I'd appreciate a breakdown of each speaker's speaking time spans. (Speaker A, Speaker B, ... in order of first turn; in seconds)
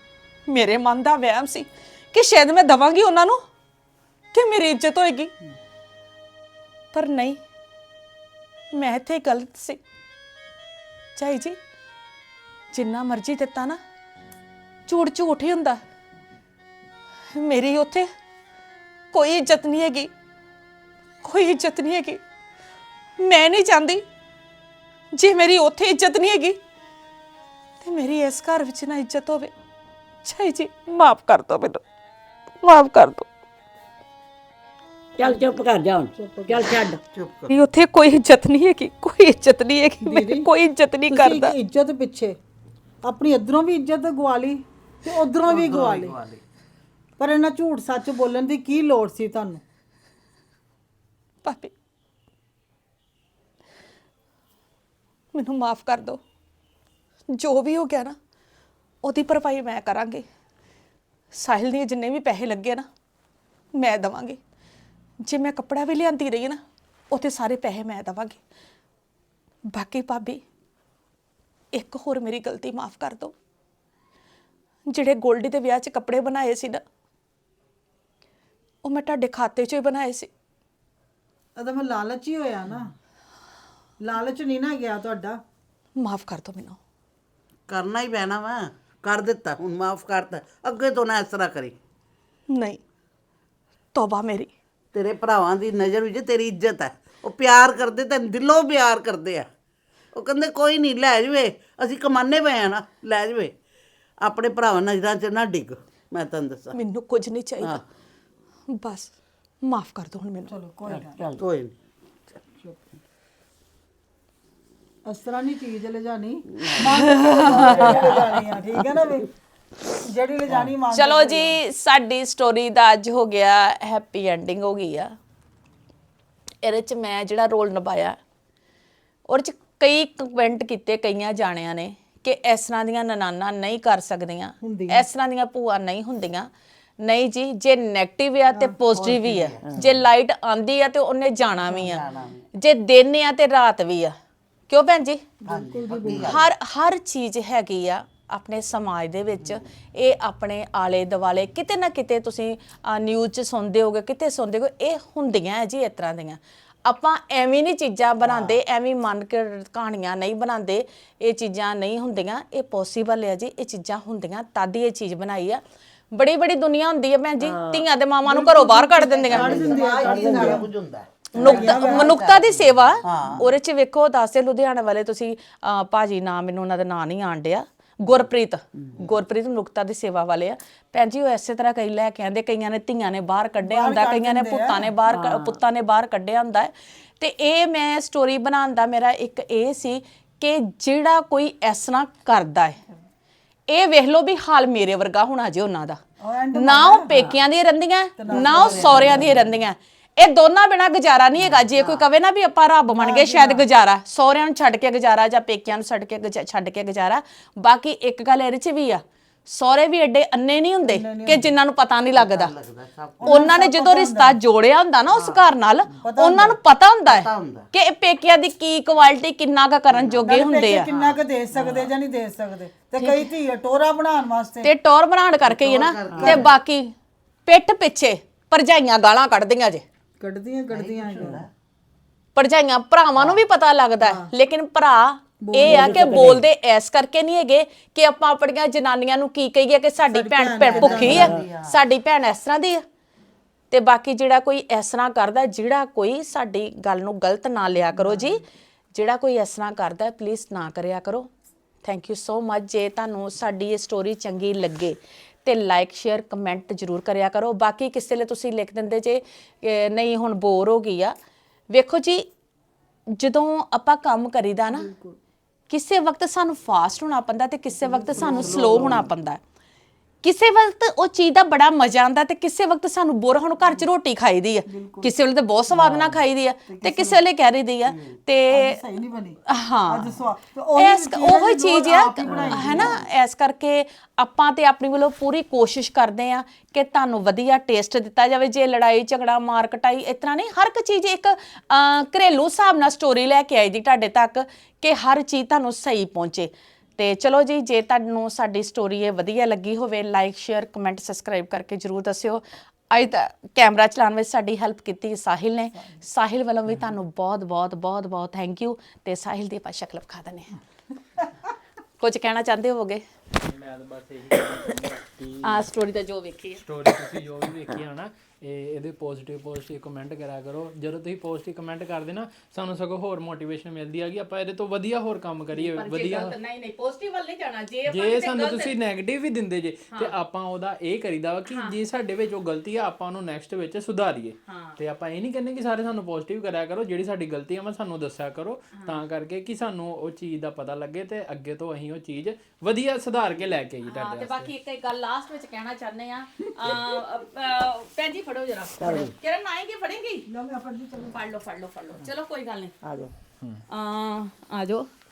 Speaker A: 0.5-3.4, 4.3-5.3, 6.9-7.4, 8.7-9.8, 11.2-11.6, 12.7-13.8, 14.9-15.8, 17.4-18.1, 19.1-20.1, 21.2-22.2, 23.2-24.0, 25.1-26.6, 27.8-29.5, 30.2-31.8, 32.6-33.2, 37.5-41.5, 51.4-51.7, 55.3-56.2, 57.4-58.1, 59.0-60.2, 61.3-62.9, 63.8-64.4, 65.2-66.6, 67.1-68.4, 69.7-70.4, 71.7-73.3, 74.9-76.8, 78.8-80.3, 86.0-86.8, 92.5-92.8, 93.9-94.5, 106.7-107.8, 108.7-109.1, 109.6-110.5, 116.8-118.1, 120.9-125.1, 126.6-128.2, 129.3-136.5, 137.0-142.0, 142.6-144.1, 144.7-145.2, 146.2-165.6, 166.1-169.8, 171.3-192.8, 193.7-196.0, 196.5-212.5, 213.2-220.9, 223.0-223.3, 224.6-226.9, 227.5-229.8, 232.3-242.8, 243.7-248.4, 248.9-251.3, 251.8-261.1, 261.7-262.2, 263.1-264.9, 265.7-269.4, 270.2-278.8, 279.5-280.2, 280.8-310.5, 312.0-313.0, 315.4-316.6, 325.5-328.7, 331.5-331.8, 334.4-334.8, 338.7-339.0, 343.8-350.3, 350.9-352.8, 353.7-354.9
Speaker B: 35.2-37.0, 110.9-111.4, 167.4-167.8, 170.1-170.6, 185.1-185.6, 226.1-226.5, 235.7-236.4, 240.8-241.4, 282.3-282.9, 348.8-349.1, 352.8-353.1
Speaker C: 36.1-36.6, 40.0-40.5, 41.1-42.4, 43.0-46.1, 47.2-49.6, 81.6-82.9, 84.0-85.4, 110.5-111.2, 115.1-119.3, 119.9-121.6, 134.6-135.1, 145.4-146.5, 168.2-170.7, 171.4-172.2, 183.6-185.0, 196.2-197.2, 198.2-199.2, 202.9-203.6, 210.8-211.4, 213.2-214.4, 216.0-216.6, 220.2-224.7, 230.2-231.4, 234.0-234.3, 235.4-236.3, 240.1-241.3, 264.7-265.1, 267.8-269.1, 274.7-275.1, 276.7-277.2, 278.5-283.0, 350.3-351.1
Speaker D: 37.1-37.5, 45.5-46.4, 87.7-91.8, 94.9-99.5, 100.1-103.5, 104.2-106.8, 111.4-111.7, 138.9-139.9, 141.6-142.5, 145.5-146.5, 158.2-158.5, 169.2-172.4, 173.0-173.5, 198.3-199.5, 201.8-202.0, 212.1-213.6, 215.1-215.4, 217.1-217.7, 219.9-221.9, 225.4-226.5, 230.7-231.5, 240.7-241.8, 268.2-268.9
Speaker E: 313.4-315.7, 316.6-326.4, 327.9-344.5